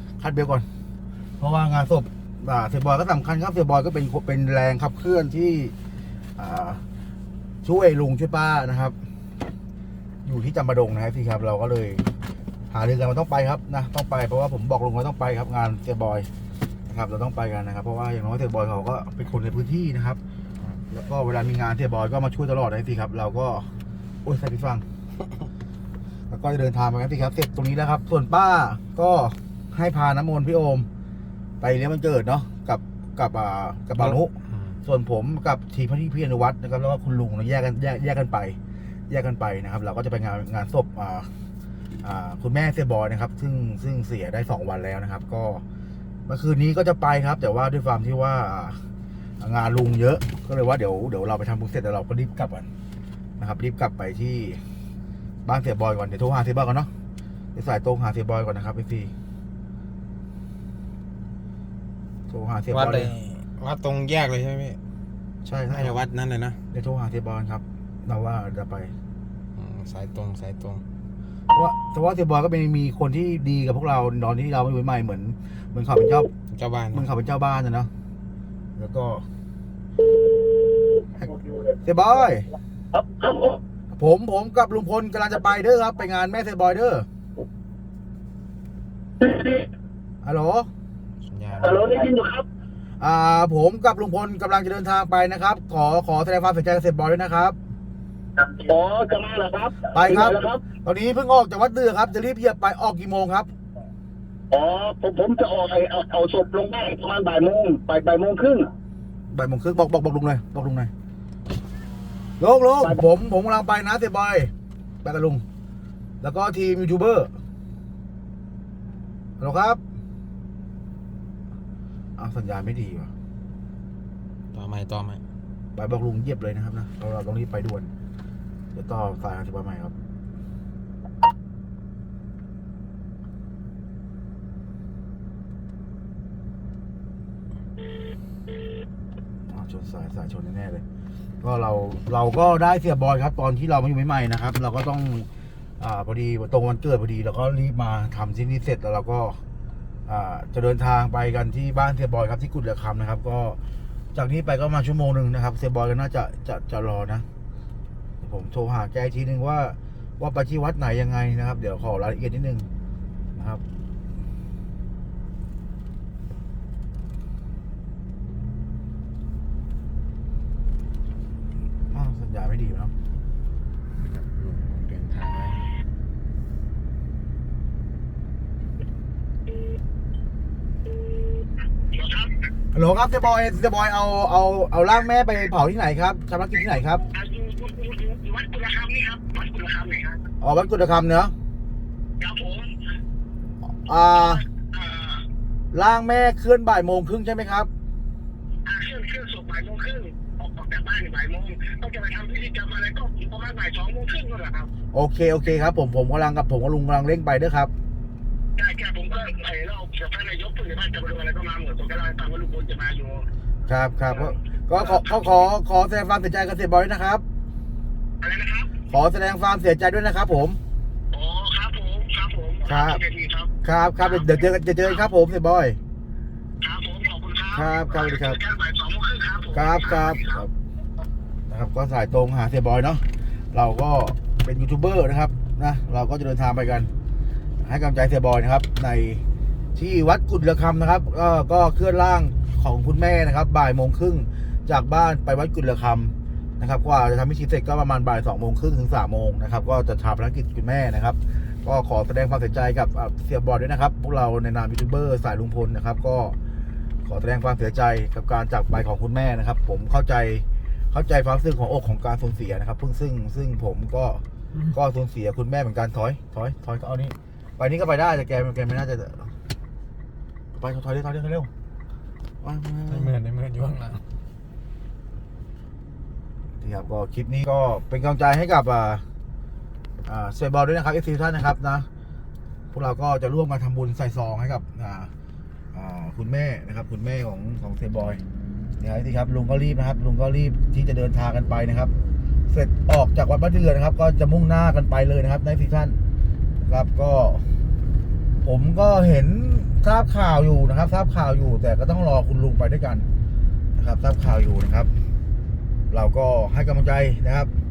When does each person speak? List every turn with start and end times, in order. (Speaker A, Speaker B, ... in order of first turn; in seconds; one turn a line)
Speaker A: 0.2-0.7
Speaker A: 1.4-5.7
Speaker A: 6.4-6.8
Speaker A: 7.6-8.9
Speaker A: 10.2-12.0
Speaker A: 12.7-16.3
Speaker A: 16.9-20.2
Speaker A: 20.9-23.7
Speaker A: 24.2-24.8
Speaker A: 26.3-30.9
Speaker A: 31.6-34.3
Speaker B: 34.0-34.8
Speaker A: 34.8-38.6
Speaker A: 39.1-41.3
Speaker A: 42.0-45.6
Speaker A: 46.3-48.8
Speaker A: 49.4-52.7
Speaker A: 53.4-54.6
Speaker A: 55.4-56.9
Speaker A: 57.5-59.1
Speaker A: 62.3-63.1
Speaker B: 62.7-64.8
Speaker A: 65.4-66.0
Speaker B: 65.7-66.6
Speaker A: 66.7-68.9
Speaker B: 69.5-70.8
Speaker A: 71.5-76.3
Speaker B: 76.5-77.0
Speaker A: 76.9-77.9
Speaker A: 78.8-79.2
Speaker A: 81.8-82.5
Speaker C: 82.9-83.6
Speaker A: 83.9-87.1
Speaker C: 89.2-89.7
Speaker A: 90.2-90.7
Speaker B: 91.3-91.9
Speaker C: 91.6-92.5
Speaker A: 93.0-97.6
Speaker C: 98.4-100.6
Speaker A: 99.9-103.5
Speaker C: 104.5-108.7
Speaker A: 109.3-110.9
Speaker A: 112.4-114.5
Speaker A: 115.0-115.4
Speaker A: 116.2-117.3
Speaker A: 119.4-119.8
Speaker A: 122.2-123.1
Speaker B: 124.5-125.2
Speaker A: 125.7-127.9
Speaker A: 128.7-129.9
Speaker A: 139.5-140.8
Speaker A: 141.4-145.3
Speaker A: 145.8-149.4
Speaker A: 150.1-153.6
Speaker A: 154.1-157.2
Speaker A: 158.2-162.7
Speaker A: 163.3-163.6
Speaker A: 171.9-172.9
Speaker B: 174.0-175.7
Speaker C: 181.9-182.3
Speaker A: 182.7-187.0
Speaker C: 187.0-190.2
Speaker A: 190.4-191.3
Speaker C: 192.2-192.7
Speaker A: 193.7-194.4
Speaker C: 194.0-195.2
Speaker A: 195.7-197.7
Speaker C: 198.7-204.7
Speaker A: 204.9-207.7
Speaker C: 208.6-213.2
Speaker A: 213.7-217.2
Speaker C: 214.1-215.3
Speaker C: 218.2-218.7
Speaker A: 218.9-220.6
Speaker C: 221.1-224.9
Speaker A: 222.7-223.0
Speaker A: 223.6-225.8
Speaker C: 226.6-230.4
Speaker A: 227.5-228.4
Speaker A: 229.5-230.5
Speaker A: 231.5-236.9
Speaker A: 237.6-239.2
Speaker A: 239.7-256.4
Speaker A: 257.0-269.3
Speaker A: 270.5-271.5
Speaker A: 272.4-273.1
Speaker B: 272.9-274.0
Speaker A: 276.6-279.0
Speaker A: 280.1-281.9
Speaker A: 282.7-285.1
Speaker A: 285.7-288.2
Speaker A: 288.8-291.9
Speaker A: 292.5-296.0
Speaker A: 296.6-297.4
Speaker A: 298.4-303.1
Speaker A: 303.8-304.9
Speaker A: 305.9-307.5